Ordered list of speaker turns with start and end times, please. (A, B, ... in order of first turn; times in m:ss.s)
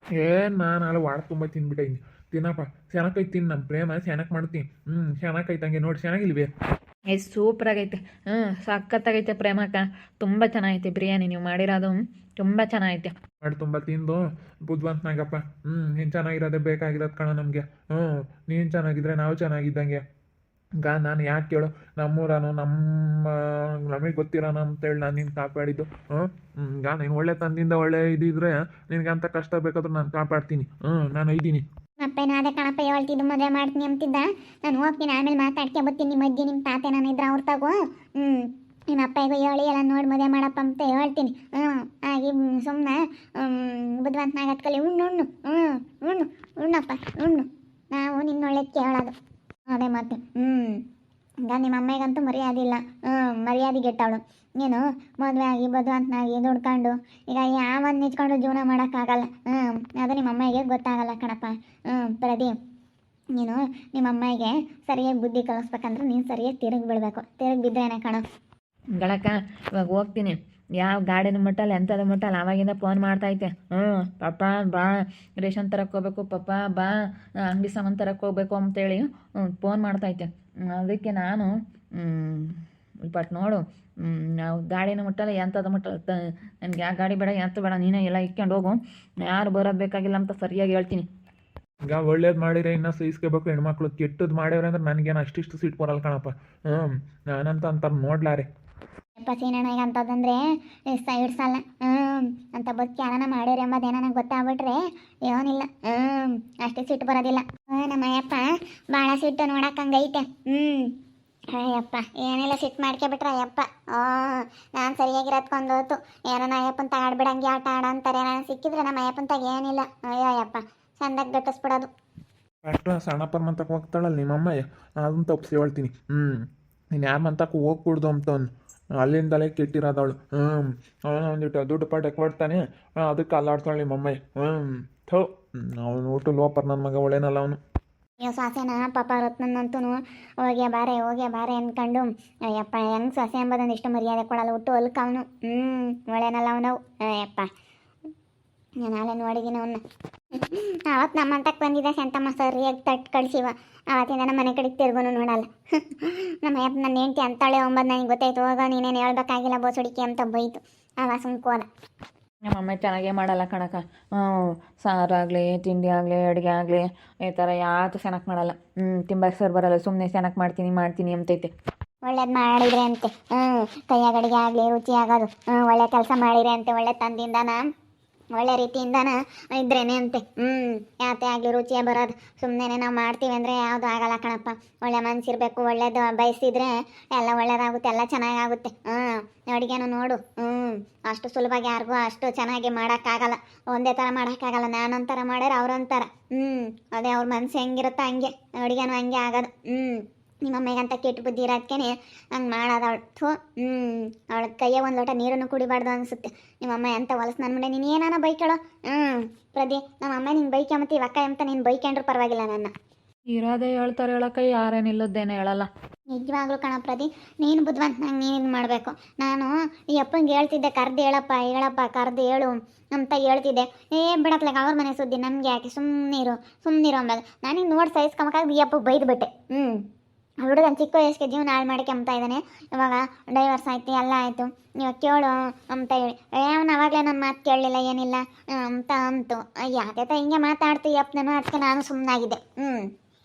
0:00.2-0:06.5 A
0:07.1-0:13.1 B
0:13.4-0:20.0 A
0:20.8-0:31.6 A
0:32.0-0:49.1 C
0:49.7-0:50.7 C
0:51.4-1:02.5 C
1:03.4-1:08.2 C
1:09.0-1:16.9 B
1:17.5-1:22.6 B
1:23.1-1:31.1 B
1:31.9-1:38.5 A
1:39.2-1:40.4 C
1:40.9-1:50.9 C
1:51.5-2:01.9 C
2:02.6-2:06.4 A
2:07.0-2:08.5 A
2:09.0-2:17.6 A
2:18.2-2:27.5 C
2:28.8-2:29.8 C
2:30.4-2:41.7 C
2:42.5-2:51.5 B
2:52.1-2:57.6 C
2:58.4-3:32.7 C
3:33.3-3:35.7 B
3:36.1-3:49.7 C
3:50.4-4:02.8 C